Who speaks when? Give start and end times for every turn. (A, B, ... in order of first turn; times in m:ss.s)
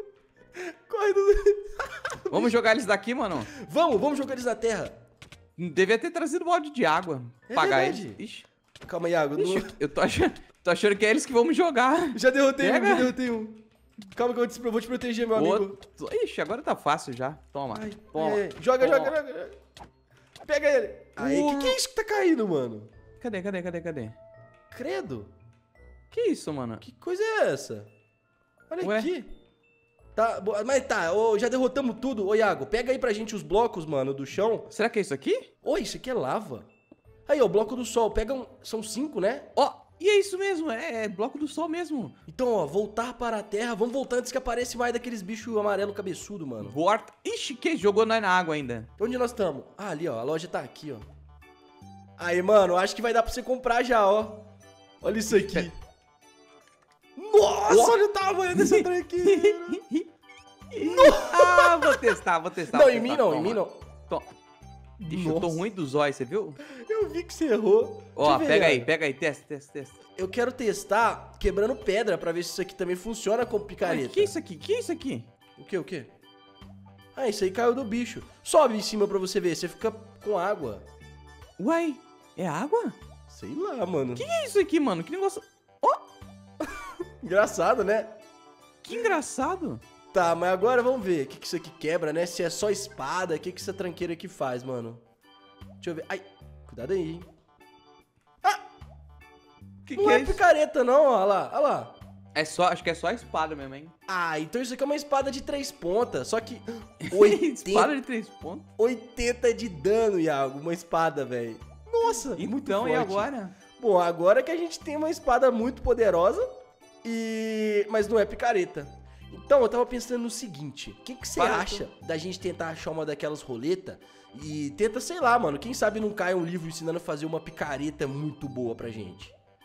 0:00.6-0:02.6 A
0:02.3-0:03.5 B
0:03.5-0:05.0 A
0:05.6-0:08.5 B
0:07.5-0:08.2 A
0:08.9-0:09.7 A
0:09.4-0:13.1 B
0:12.1-0:13.6 A
0:14.2-0:15.8 A
0:15.4-0:19.1 B
0:17.7-0:19.6 A
0:20.4-0:22.9 A
0:21.2-0:21.8 B
0:23.2-0:24.2 B
0:24.7-0:25.3 A
0:26.1-0:26.8 B
0:26.8-0:27.9 A
0:28.7-0:29.3 A
0:28.8-0:29.1 B
0:30.2-0:34.7 A
0:34.7-0:35.5 B
0:35.6-0:36.7 A
0:37.3-0:39.5 A
0:39.6-0:42.2 B
0:42.3-0:46.8 A
0:46.6-0:48.9 B
0:49.0-0:51.1 A
0:52.2-0:54.5 A
0:55.0-0:55.8 A
0:55.3-0:55.7 B
0:57.2-0:59.8 A
0:57.7-0:58.0 B
0:58.5-1:00.1 B
1:00.7-1:04.3 B
1:00.8-1:02.0 A
1:02.7-1:03.8 A
1:05.0-1:05.6 A
1:05.1-1:06.6 B
1:06.7-1:08.9 A
1:08.2-1:10.0 B
1:10.2-1:14.4 A
1:13.8-1:15.3 B
1:15.6-1:16.1 A
1:17.2-1:20.8 A
1:21.6-1:23.0 B
1:23.3-1:24.2 A
1:24.2-1:26.0 B
1:26.6-1:28.1 A
1:28.8-1:29.8 B
1:30.1-1:35.0 A
1:35.8-1:37.3 A
1:39.9-1:40.4 B
1:40.0-1:42.0 A
1:42.4-1:43.9 B
1:44.1-1:48.0 A
1:47.1-1:48.7 B
1:48.8-1:56.5 A
1:52.3-1:53.6 B
1:57.0-2:09.4 A
2:01.4-2:01.9 B